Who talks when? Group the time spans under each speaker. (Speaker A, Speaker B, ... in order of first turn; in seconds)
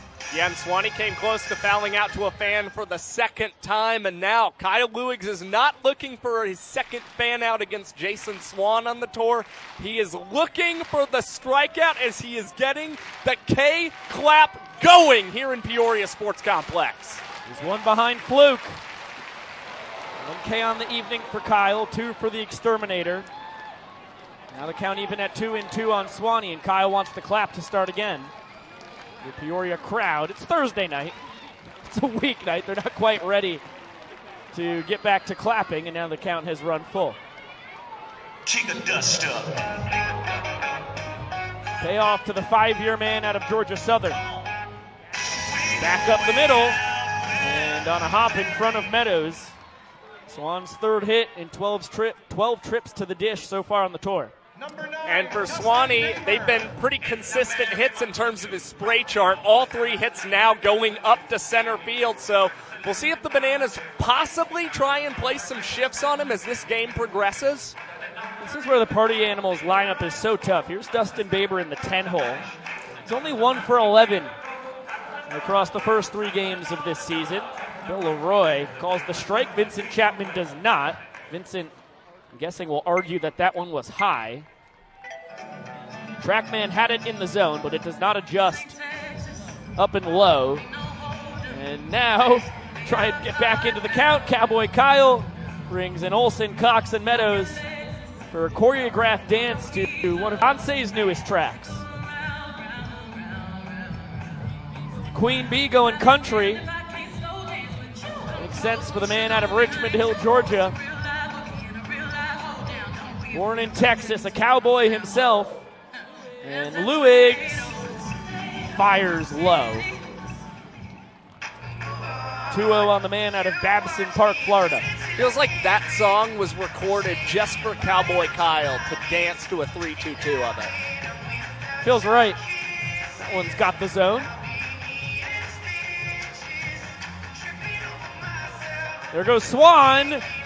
Speaker A: 0.3-17.2, 55.0-67.8, 125.2-130.7
Speaker B: 17.5-18.8, 20.2-23.3, 24.5-28.3, 29.2-31.2, 31.8-33.6, 34.5-37.2, 41.8-44.2, 45.8-46.8, 47.4-49.6, 50.3-54.3, 68.4-72.4, 73.1-74.3, 75.3-81.7, 82.3-84.5, 86.2-88.8, 89.8-90.7, 91.5-97.6, 98.3-101.8, 105.1-106.7, 108.3-110.8, 113.3-115.6, 116.4-117.8, 118.7-119.9, 122.5-124.9, 131.8-132.4, 133.2-134.3, 139.1-140.2